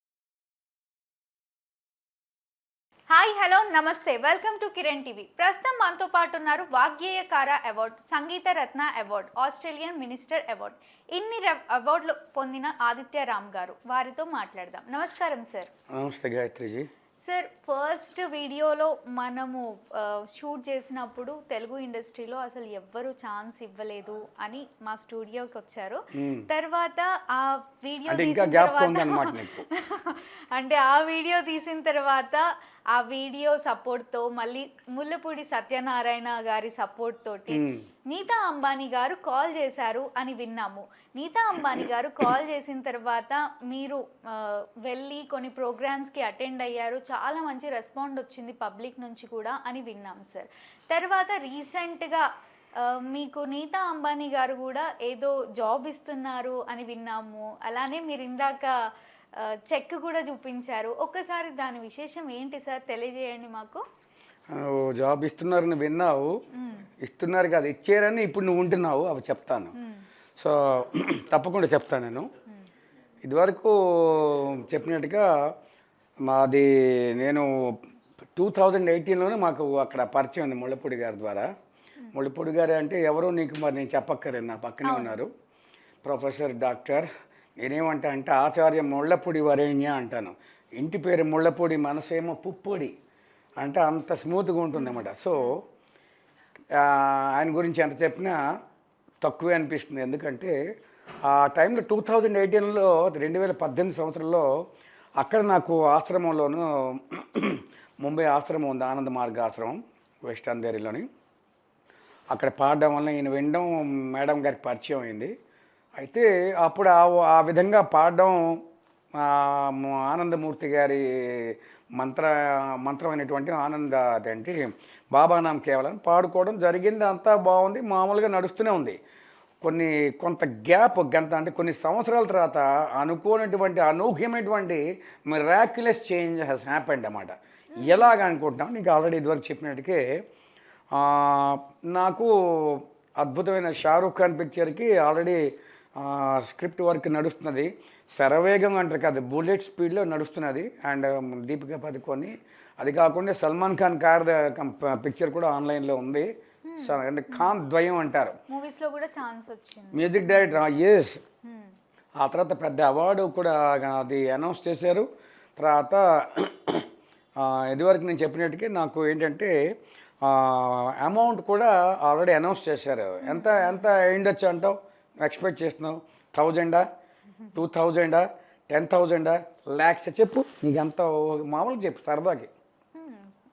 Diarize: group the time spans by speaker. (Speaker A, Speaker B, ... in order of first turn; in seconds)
Speaker A: 3.1-15.7, 17.2-32.4, 32.9-52.2, 52.8-58.7, 59.4-63.8, 66.5-66.9, 69.8-70.0, 84.8-85.2, 94.7-95.5, 137.7-138.1, 156.7-157.5, 158.5-160.7, 161.4-161.7, 173.2-173.8, 182.9-183.3
Speaker B: 15.9-16.9, 26.2-26.4, 28.1-29.6, 37.5-37.8, 64.5-66.3, 67.0-69.7, 70.4-72.3, 73.2-75.2, 76.2-77.5, 78.3-81.5, 82.1-85.3, 86.0-87.1, 87.6-92.9, 93.6-95.6, 96.7-98.4, 99.2-100.5, 101.2-104.5, 105.2-111.1, 112.3-115.3, 116.0-118.6, 119.1-129.0, 129.6-140.0, 140.9-145.4, 146.0-156.3, 156.8-158.3, 159.9-161.2, 162.2-165.1, 165.6-166.8, 167.4-169.5, 170.2-176.8, 177.5-182.5